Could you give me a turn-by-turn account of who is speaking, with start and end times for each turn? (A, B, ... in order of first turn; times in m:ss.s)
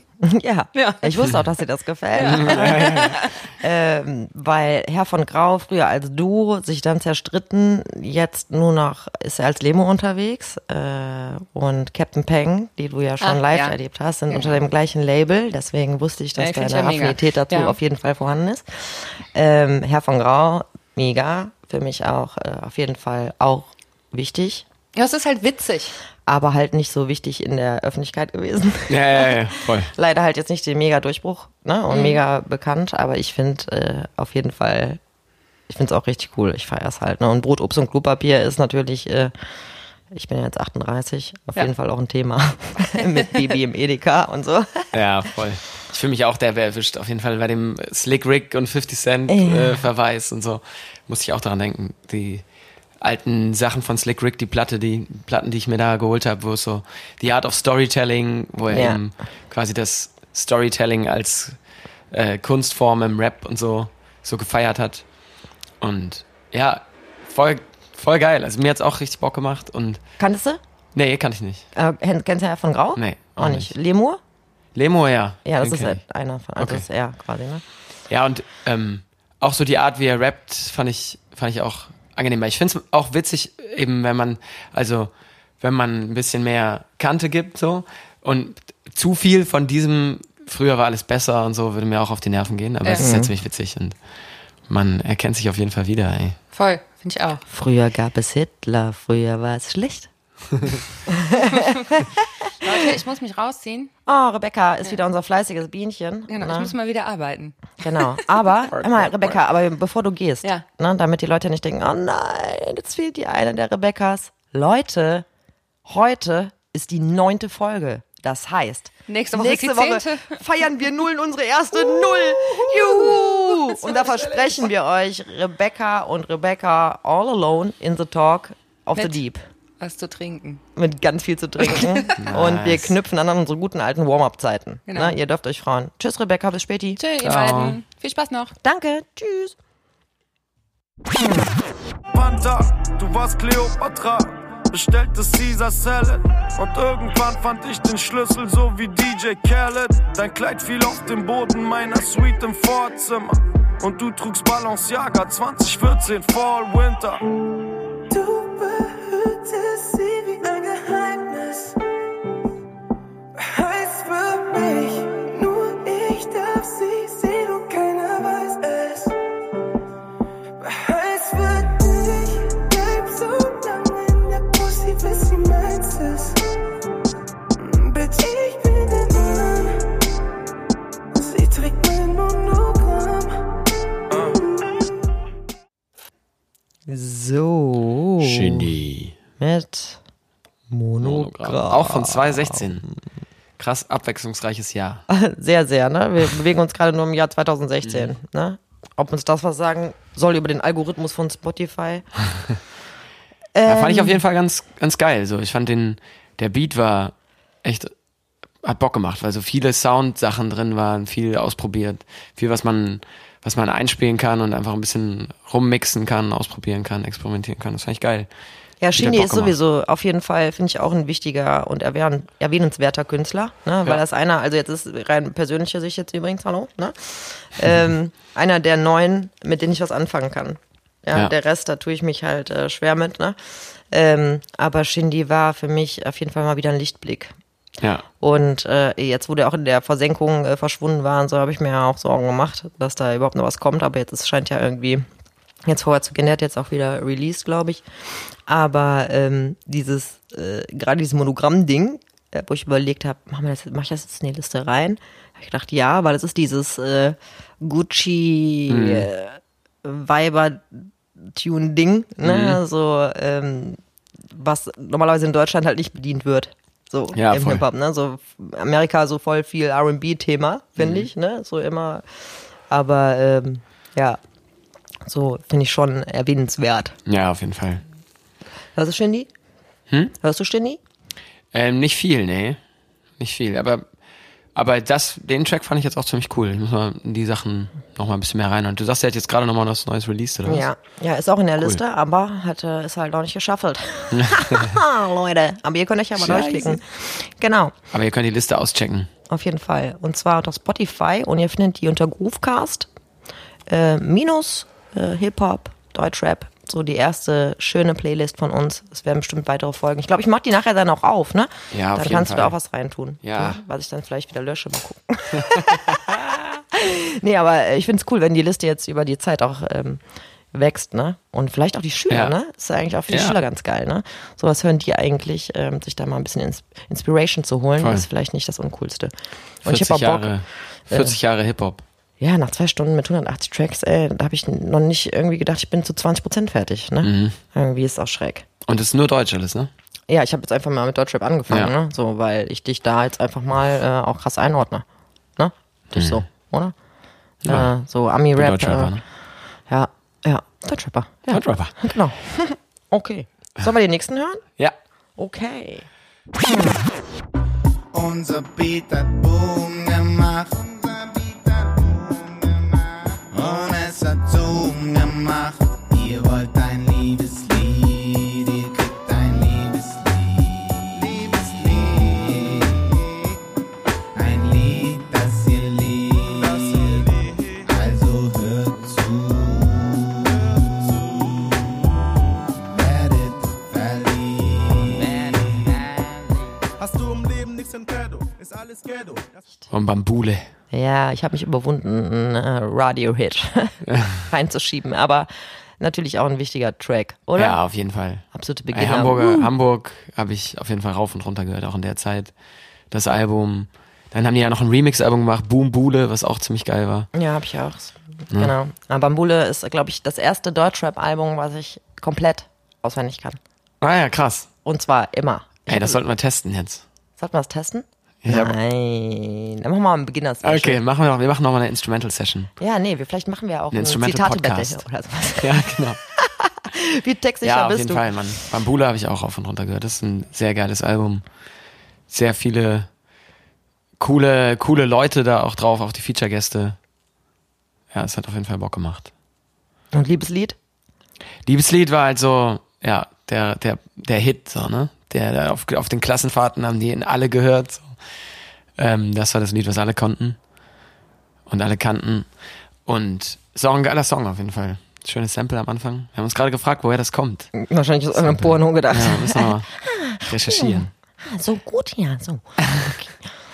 0:00.2-0:24.6 A
0:00.7-0:01.3 B
0:02.1-0:03.3 B
0:02.2-0:03.1 C
0:13.2-0:13.8 B
0:14.3-0:14.6 B
0:16.4-0:17.8 B
0:24.9-0:25.9 B
0:26.2-0:35.0 A
0:28.9-0:29.9 C
0:31.9-0:32.2 B
0:35.7-0:39.3 A
0:40.1-0:44.9 A
0:44.9-0:52.4 C
0:49.3-0:49.9 A
0:53.0-1:01.6 C
0:58.7-0:59.0 A
1:02.1-1:05.0 C
1:05.8-1:10.0 C
1:10.2-1:10.6 A
1:10.9-1:11.6 C
1:11.7-1:14.2 A
1:13.0-1:13.7 C
1:14.7-1:16.0 C
1:15.4-1:17.6 A
1:16.6-1:16.9 C
1:18.1-1:34.0 C
1:33.0-1:33.3 A
1:34.7-1:36.4 C
1:36.5-1:37.4 B
1:37.5-1:40.1 A
1:41.1-1:42.1 A
1:41.4-1:42.0 B
1:42.6-1:43.9 B
1:44.1-1:46.7 A
1:46.3-1:47.8 B
1:47.8-1:55.2 A
1:55.9-2:09.4 A
1:59.1-2:00.4 B
2:02.5-2:03.2 B
2:03.7-2:04.4 B
2:09.0-2:09.2 B
2:09.8-2:10.6 B
2:10.8-2:17.0 A
2:11.6-2:12.1 B
2:12.2-2:12.9 C
2:14.9-2:15.1 B
2:17.0-2:18.5 B
2:17.2-2:17.8 C
2:18.6-2:19.6 A
2:22.1-2:37.2 D
2:38.1-2:41.8 D
2:43.4-2:49.2 D
2:50.6-2:56.4 D
2:57.6-2:59.9 D
3:01.1-3:03.5 D
3:04.1-3:05.0 D
3:06.9-3:08.7 A
3:08.2-3:09.1 C
3:09.4-3:10.0 A
3:10.7-3:12.9 A
3:11.0-3:12.9 C
3:13.6-3:15.0 C
3:15.1-3:22.1 A
3:17.8-3:18.1 C
3:23.5-3:24.2 A
3:23.6-3:27.1 C
3:27.6-3:27.9 C
3:28.6-3:38.3 C
3:38.8-3:53.4 A
3:38.9-3:39.5 C
3:53.9-3:57.4 A
3:58.2-4:05.1 A
4:05.6-4:32.0 A
4:18.7-4:19.1 C
4:22.2-4:22.6 C
4:27.1-4:27.6 C
4:30.8-4:31.1 C
4:32.7-4:34.2 A
4:35.1-4:37.0 A
4:37.1-4:37.8 C
4:38.7-4:39.3 A
4:40.2-4:40.8 A
4:41.5-4:42.6 C
4:43.2-4:43.8 C
4:44.5-4:50.7 C
4:50.4-4:57.7 A
4:54.1-4:54.8 C
4:56.2-4:56.8 C
4:57.9-4:59.1 C
4:59.3-5:02.9 A
5:03.7-5:16.1 A
5:11.7-5:12.5 C
5:13.2-5:13.6 C
5:15.4-5:16.5 C
5:16.7-5:20.0 A
5:20.5-5:29.1 A
5:22.1-5:22.4 C
5:23.1-5:23.4 C
5:27.8-5:28.1 C
5:29.6-5:30.3 A
5:29.6-5:31.8 C
5:30.9-5:31.2 A
5:32.2-5:38.4 A
5:37.0-5:37.4 C
5:38.6-5:39.7 C
5:40.1-5:44.8 A
5:45.4-5:46.7 A
5:46.0-5:46.2 C
5:47.4-5:47.7 C
5:47.4-5:48.9 A
5:48.4-5:49.0 C
5:49.7-5:54.4 A
5:51.3-5:51.7 C
5:55.2-5:55.9 A
5:56.4-5:56.7 A
5:57.9-6:13.3 E
6:14.2-6:17.1 E
6:16.4-6:17.5 F
6:17.7-6:21.3 E
6:22.6-6:25.9 E
6:26.8-6:29.3 F
6:29.7-6:30.5 C
6:30.7-6:37.6 A
6:33.9-6:34.2 C
6:37.4-6:42.3 C
6:38.3-6:39.5 A
6:42.9-6:47.1 C
6:47.1-6:53.4 A
6:53.8-6:54.5 C
6:54.6-6:56.0 A
6:55.7-6:56.8 C
6:57.2-7:00.8 A
6:58.2-6:58.5 C
7:00.4-7:02.5 C
7:02.6-7:08.2 A
7:03.7-7:04.8 C
7:05.4-7:06.0 C
7:07.4-7:11.2 C
7:12.1-7:12.9 C
7:14.0-7:16.8 C
7:17.9-7:19.1 C
7:19.9-7:20.6 A
7:21.4-7:27.9 C
7:28.8-7:30.4 C
7:31.5-7:32.2 C
7:32.9-7:37.5 C
7:37.6-7:43.1 A
7:38.2-7:40.9 C